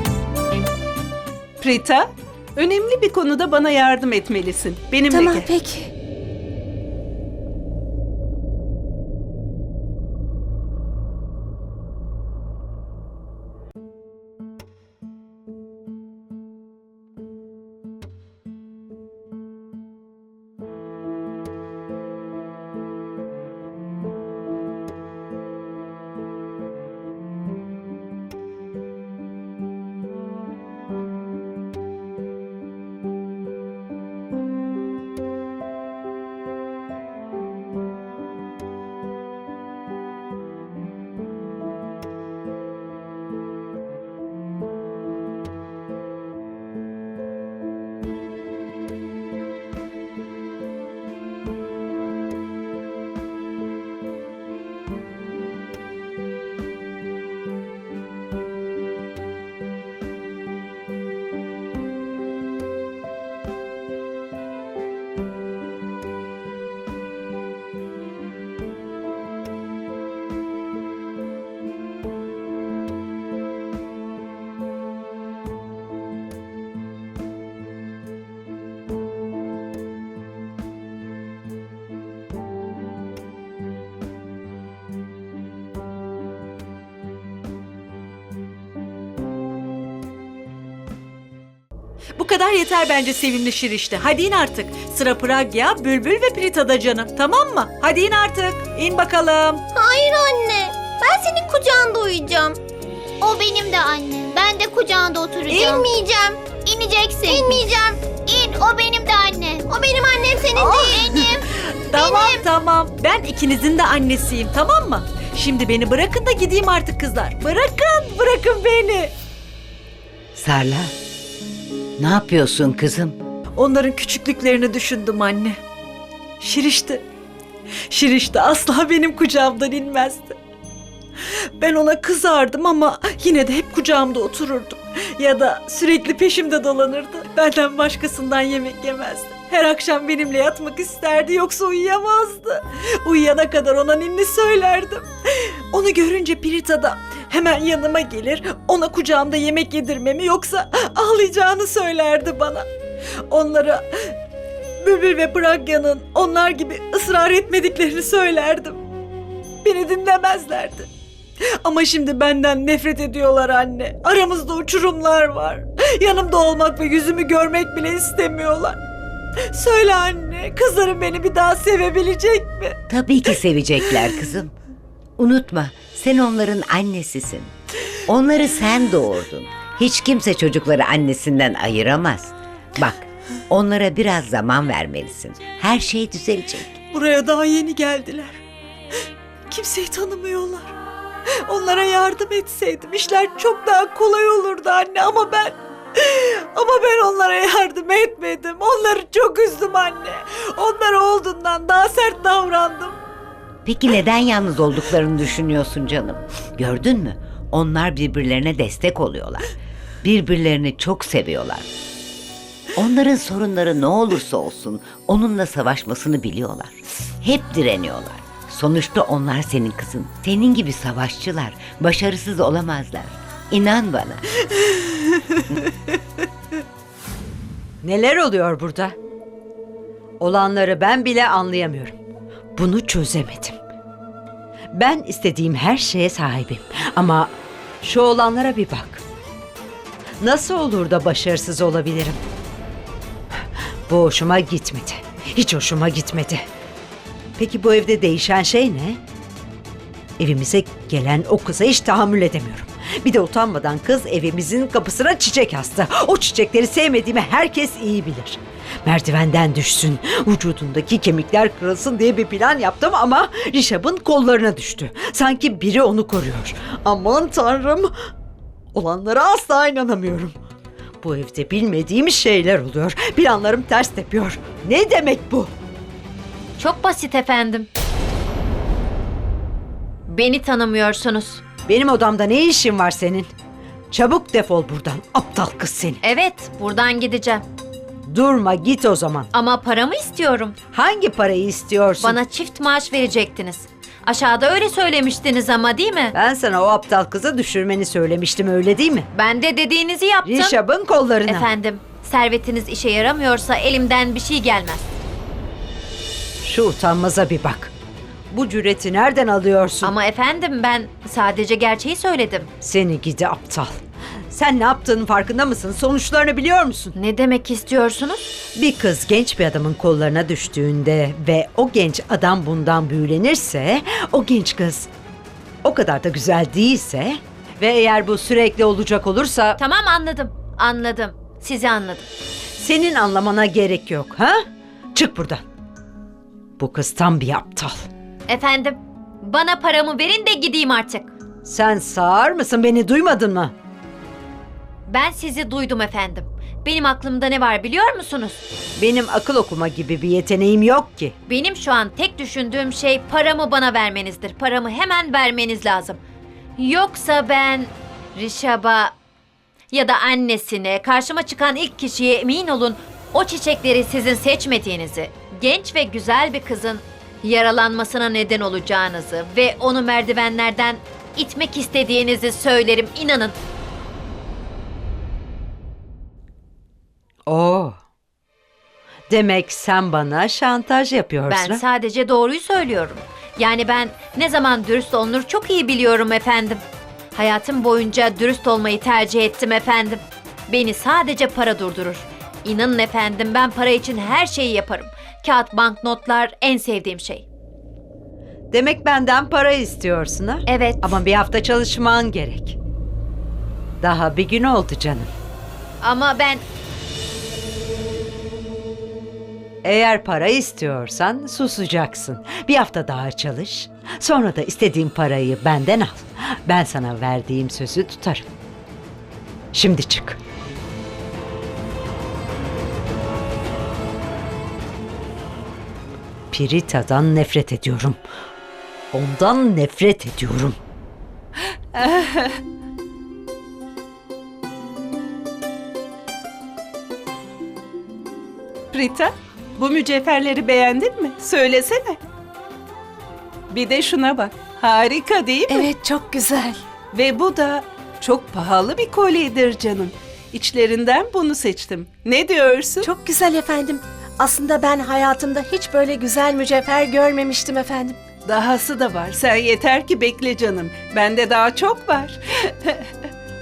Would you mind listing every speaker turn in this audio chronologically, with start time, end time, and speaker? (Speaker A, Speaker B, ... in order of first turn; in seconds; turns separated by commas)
Speaker A: 1.6-5.5, Speaker B: 5.1-5.9, Speaker C: 92.2-99.6, Speaker D: 99.7-102.6, Speaker D: 103.2-112.5, Speaker C: 105.5-105.9, Speaker C: 107.3-107.7, Speaker C: 110.5-111.4, Speaker C: 111.9-119.1, Speaker E: 120.4-120.9, Speaker E: 122.0-123.2, Speaker C: 123.6-125.6, Speaker C: 126.4-127.0, Speaker C: 127.9-130.4, Speaker C: 131.6-152.7, Speaker C: 153.3-153.9, Speaker C: 154.8-158.8, Speaker C: 159.6-160.9, Speaker C: 161.6-168.8, Speaker C: 169.5-174.3, Speaker E: 172.9-174.5, Speaker E: 175.2-177.5, Speaker E: 178.1-186.7, Speaker C: 186.9-188.4, Speaker C: 189.5-190.7, Speaker C: 191.4-203.0, Speaker E: 203.7-209.5, Speaker E: 210.0-211.7, Speaker E: 212.8-224.2, Speaker F: 227.8-228.9, Speaker F: 230.2-232.0, Speaker F: 232.6-233.6, Speaker F: 234.7-239.0, Speaker F: 240.2-242.2, Speaker F: 243.9-246.4, Speaker F: 247.4-249.0, Speaker F: 250.2-268.1, Speaker F: 268.7-270.4, Speaker F: 271.0-275.5, Speaker G: 276.6-277.7, Speaker G: 280.1-281.4, Speaker F: 281.7-283.3, Speaker F: 283.9-286.0, Speaker G: 286.0-287.4, Speaker F: 288.1-289.3, Speaker G: 289.3-290.6, Speaker F: 290.7-292.2, Speaker G: 292.0-296.1, Speaker F: 296.1-299.1, Speaker G: 299.1-300.6, Speaker F: 300.2-301.5, Speaker G: 301.2-304.9, Speaker F: 306.4-307.7, Speaker F: 308.3-309.9, Speaker G: 309.8-312.5, Speaker F: 312.6-316.9, Speaker G: 317.0-318.3, Speaker F: 318.6-324.9, Speaker F: 325.6-329.6, Speaker G: 329.6-332.1, Speaker F: 332.6-335.4, Speaker F: 336.6-337.9, Speaker G: 338.3-341.1, Speaker F: 341.4-343.5, Speaker G: 344.9-348.4, Speaker F: 348.8-351.1, Speaker G: 351.3-356.0, Speaker G: 356.6-358.9, Speaker G: 359.7-373.4, Speaker F: 377.3-377.8, Speaker F: 379.1-381.6, Speaker G: 381.3-386.6, Speaker G: 387.1-397.3, Speaker F: 398.5-402.6, Speaker G: 400.5-401.0, Speaker F: 403.8-405.1, Speaker G: 405.8-406.4, Speaker F: 409.6-418.3, Speaker F: 419.5-420.2, Speaker F: 426.3-428.0, Speaker F: 428.9-430.6, Speaker A: 431.8-432.4, Speaker A: 438.7-442.0, Speaker A: 443.5-445.7, Speaker B: 445.5-446.6, Speaker A: 446.9-452.9, Speaker B: 452.8-458.0, Speaker A: 458.3-462.9